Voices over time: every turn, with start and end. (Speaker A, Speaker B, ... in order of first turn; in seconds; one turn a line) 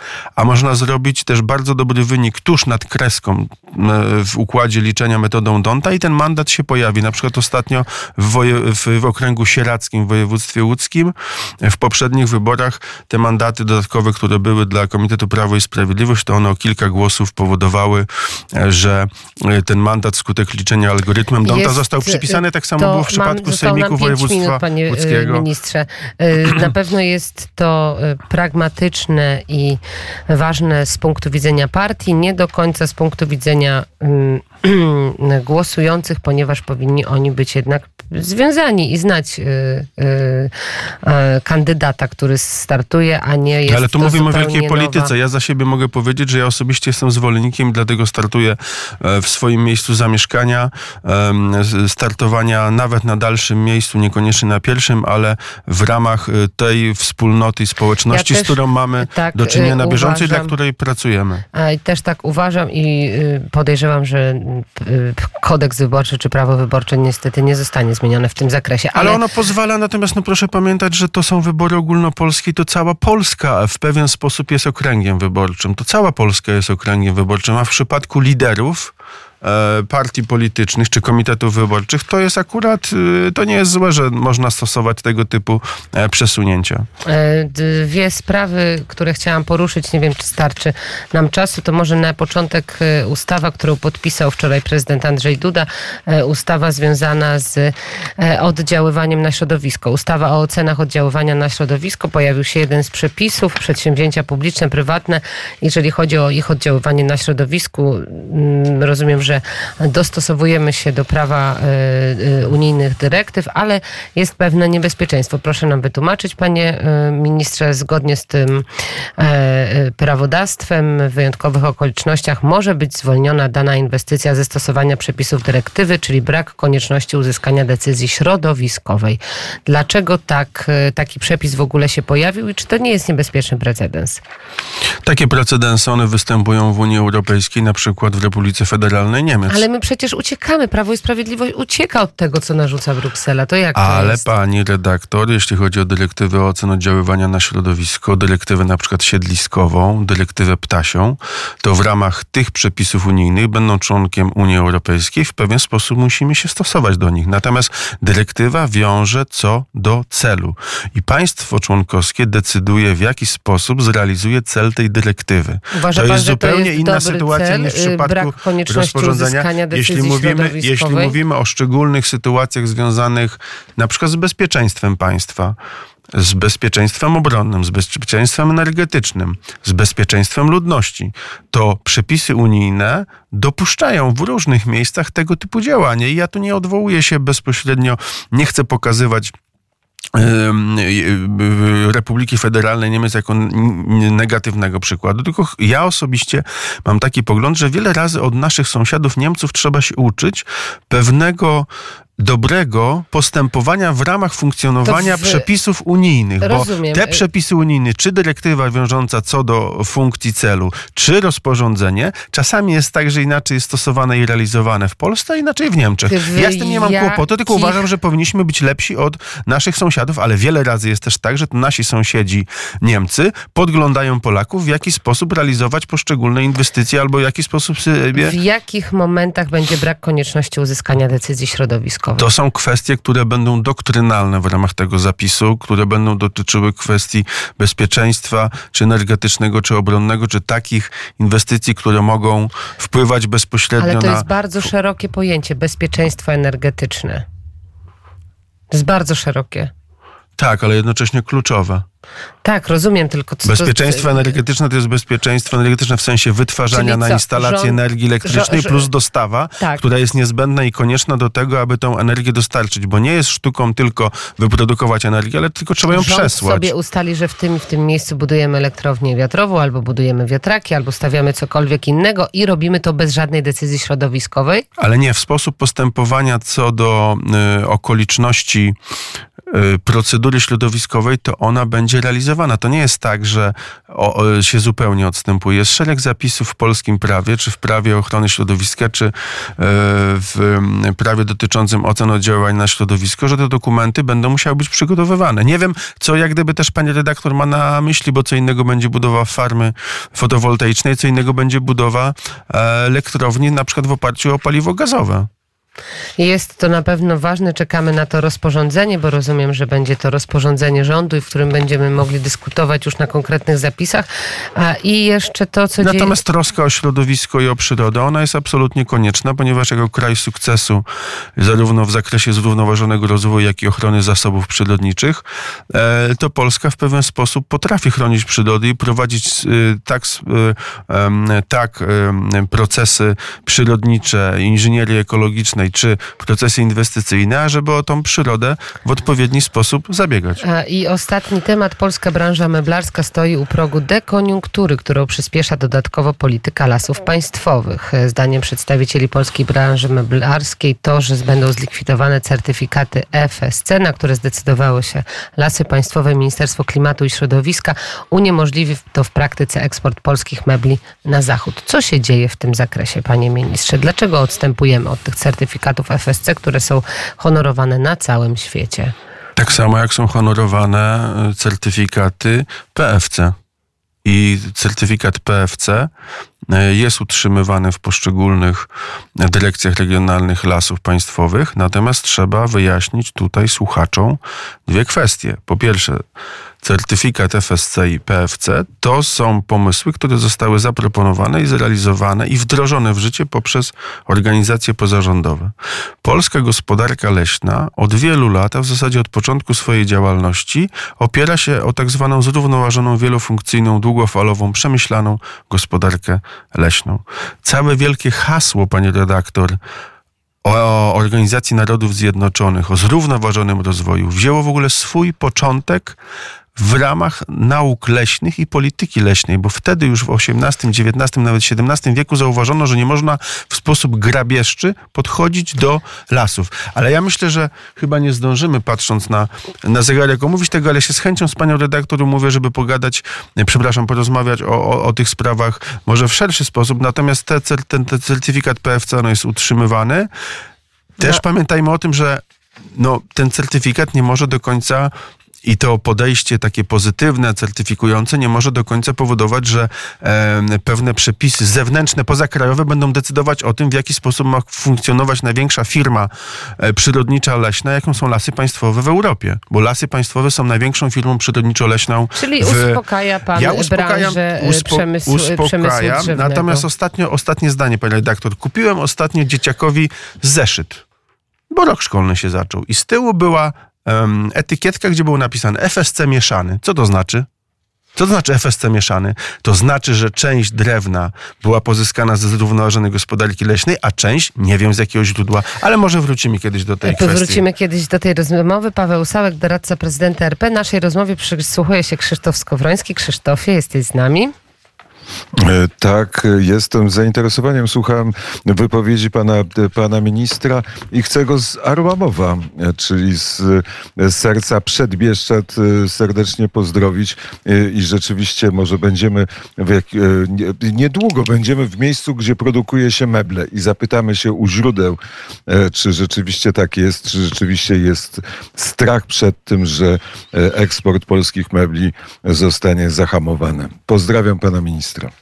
Speaker A: 0.4-25.5
Speaker B: 21.4-45.1
Speaker A: 43.7-61.4
Speaker B: 58.1-60.5
Speaker B: 61.5-69.2
Speaker A: 69.0-86.9
Speaker B: 87.0-118.7
Speaker B: 119.2-134.2
Speaker A: 135.0-139.6
Speaker B: 139.5-144.2
Speaker A: 143.8-175.6
Speaker B: 165.7-171.2
Speaker A: 176.1-189.3
Speaker A: 190.1-201.7
Speaker A: 202.2-228.4
Speaker B: 204.8-205.5
Speaker B: 206.4-207.2
Speaker B: 216.1-217.8
Speaker B: 228.2-232.3
Speaker A: 232.2-244.3
Speaker B: 243.8-247.2
Speaker B: 248.7-249.7
Speaker A: 250.4-251.8
Speaker B: 252.4-254.3
Speaker A: 253.4-266.7
Speaker B: 256.7-258.9
Speaker B: 265.9-274.6
Speaker A: 274.8-278.8
Speaker A: 279.5-305.3
Speaker B: 306.2-316.1
Speaker A: 315.8-320.9
Speaker A: 321.4-340.4
Speaker B: 340.4-368.9
Speaker A: 369.4-373.4
Speaker A: 374.0-375.9
Speaker A: 376.5-386.0
Speaker A: 386.6-409.6
Speaker A: 410.4-416.0
Speaker A: 416.6-440.1
Speaker A: 441.0-442.2
Speaker A: 442.7-444.9
Speaker A: 445.4-462.8
Speaker B: 462.1-466.7
Speaker A: 463.3-470.8
Speaker A: 471.5-477.3
Speaker A: 478.0-487.4
Speaker B: 486.8-494.3
Speaker C: 495.4-525.1